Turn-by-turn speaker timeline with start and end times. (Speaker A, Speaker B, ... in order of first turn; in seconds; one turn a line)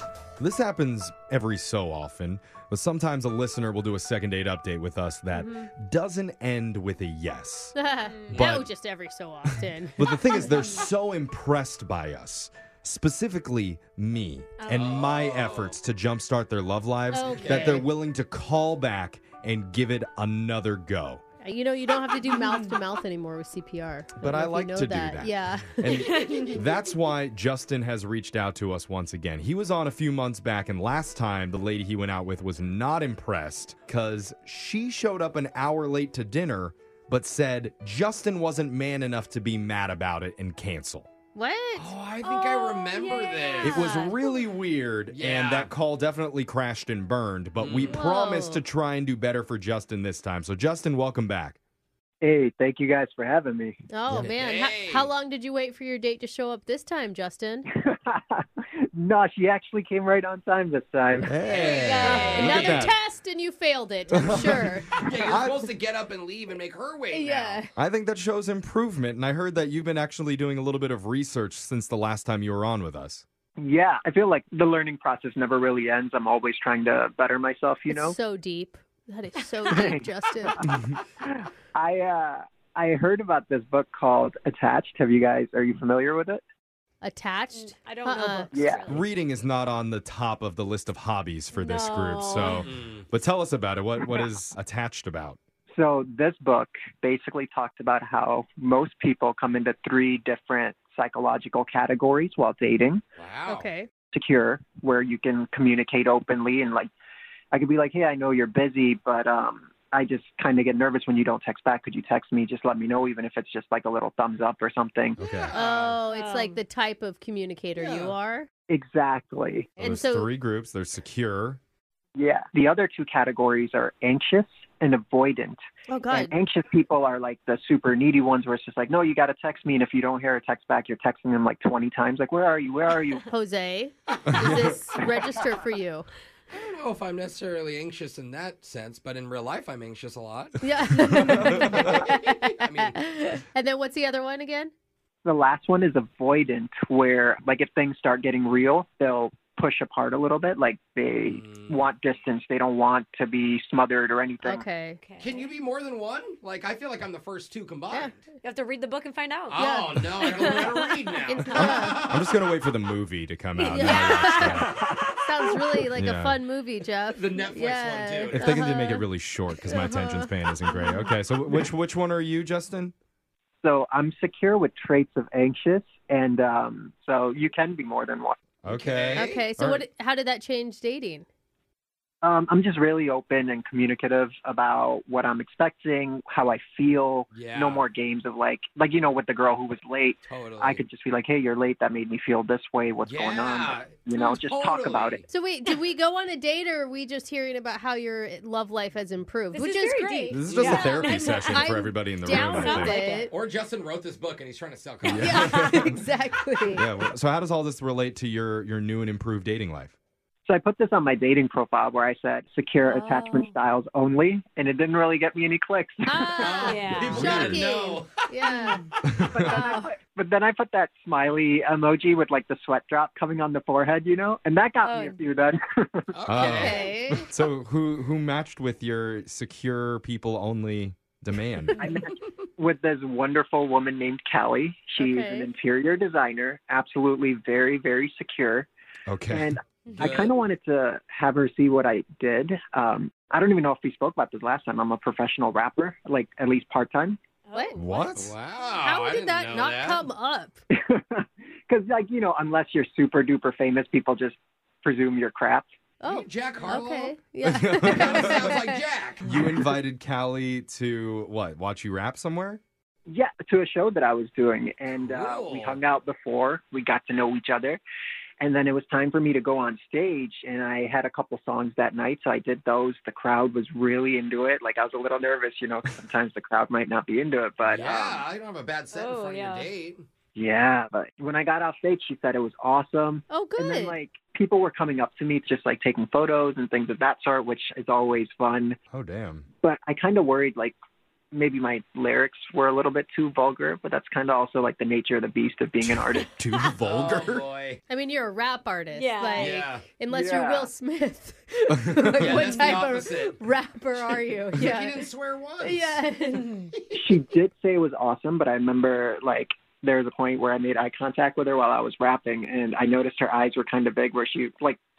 Speaker A: 0.4-7.7
Speaker B: 5.3-5.7
Speaker B: 7.7-10.1
Speaker C: 8.0-8.4
Speaker A: 8.3-8.7
Speaker D: 8.3-8.6
Speaker A: 9.4-21.2
Speaker C: 10.5-10.8
Speaker C: 14.6-14.9
Speaker D: 14.7-15.8
Speaker B: 17.1-17.9
Speaker D: 17.4-17.8
Speaker B: 21.4-26.0
Speaker A: 24.2-41.1
Speaker C: 26.0-26.6
Speaker B: 41.3-41.9
Speaker D: 41.7-44.0
Speaker C: 42.2-44.3
Speaker B: 43.6-44.1
Speaker A: 43.6-51.6
Speaker D: 45.1-45.7
Speaker D: 47.6-48.0
Speaker B: 47.9-48.6
Speaker E: 52.2-53.8
Speaker B: 53.9-57.7
Speaker A: 54.1-54.3
Speaker D: 54.2-55.1
Speaker E: 57.8-61.3
Speaker A: 61.2-63.0
Speaker D: 61.5-62.9
Speaker B: 61.9-64.9
Speaker A: 64.1-65.7
Speaker D: 64.9-67.6
Speaker B: 67.1-67.7
Speaker A: 67.7-73.2
Speaker E: 73.6-78.1
Speaker B: 77.9-80.7
Speaker E: 79.7-86.4
Speaker B: 87.0-88.5
Speaker C: 87.5-89.1
Speaker E: 88.5-88.9
Speaker A: 88.9-95.4
Speaker C: 91.5-92.6
Speaker D: 92.4-93.0
Speaker E: 95.7-103.0
Speaker D: 103.2-103.7
Speaker B: 103.5-103.9
Speaker E: 104.1-106.9
Speaker E: 107.5-115.2
Speaker A: 115.2-115.5
Speaker D: 115.2-116.0
Speaker B: 115.5-118.5
Speaker C: 116.0-116.6
Speaker D: 117.8-118.2
Speaker E: 118.7-119.7
Speaker B: 119.8-120.3
Speaker A: 119.8-121.6
Speaker E: 122.2-133.3
Speaker B: 125.9-126.3
Speaker B: 133.2-136.1
Speaker A: 134.3-134.7
Speaker D: 136.5-143.0
Speaker B: 140.6-144.7
Speaker A: 141.1-141.9
Speaker E: 145.2-154.6
Speaker D: 151.2-151.9
Speaker B: 154.4-155.0
Speaker C: 155.0-155.5
Speaker D: 155.2-158.3
Speaker C: 158.4-161.8
Speaker D: 159.5-162.3
Speaker B: 159.6-160.5
Speaker B: 161.3-162.0
Speaker A: 161.5-164.8
Speaker C: 163.7-164.6
Speaker B: 163.7-169.1
Speaker E: 164.6-165.6
Speaker A: 165.9-166.4
Speaker D: 167.1-168.5
Speaker A: 168.3-172.9
Speaker B: 169.7-171.0
Speaker E: 173.6-178.4
Speaker A: 178.6-179.8
Speaker D: 178.7-179.4
Speaker B: 179.1-181.2
Speaker E: 182.2-195.2
Speaker D: 187.3-187.8
Speaker D: 190.3-190.8
Speaker D: 193.0-195.3
Speaker B: 195.3-203.3
Speaker C: 199.5-201.6
Speaker A: 200.3-203.0
Speaker C: 202.3-203.3
Speaker D: 203.3-205.5
Speaker A: 205.0-206.0
Speaker B: 205.2-206.8
Speaker C: 205.2-205.7
Speaker A: 206.7-209.9
Speaker E: 210.4-216.7
Speaker C: 212.9-213.4
Speaker B: 213.1-213.4
Speaker B: 216.0-218.8
Speaker D: 216.4-218.5
Speaker C: 216.6-217.2
Speaker A: 217.0-217.6
Speaker E: 219.2-226.8
Speaker B: 219.4-219.9
Speaker C: 224.8-225.2
Speaker D: 226.1-226.9
Speaker A: 226.3-231.8
Speaker B: 226.4-227.2
Speaker E: 231.8-238.7
Speaker B: 235.0-235.5
Speaker A: 239.1-239.5
Speaker E: 239.3-247.2
Speaker D: 240.0-240.3
Speaker C: 247.4-248.1
Speaker A: 247.8-248.3
Speaker D: 248.2-250.1
Speaker B: 248.8-250.6
Speaker E: 250.7-255.7
Speaker B: 256.0-258.8
Speaker D: 256.1-257.1
Speaker A: 257.4-258.6
Speaker D: 257.8-259.3
Speaker A: 259.2-262.6
Speaker E: 263.1-267.8
Speaker D: 264.9-265.8
Speaker E: 268.4-278.2
Speaker D: 277.6-280.0
Speaker C: 278.9-279.7
Speaker E: 280.3-288.8
Speaker B: 283.3-283.9
Speaker A: 288.9-289.5
Speaker E: 289.6-290.8
Speaker E: 291.3-296.3
Speaker A: 295.9-297.4
Speaker D: 296.9-297.8
Speaker B: 297.9-305.1
Speaker C: 298.9-299.6
Speaker D: 299.4-299.9
Speaker E: 300.1-300.7
Speaker A: 301.7-302.5
Speaker D: 302.2-303.4
Speaker D: 304.0-306.0
Speaker B: 305.6-306.6
Speaker C: 306.3-306.7
Speaker E: 306.9-314.8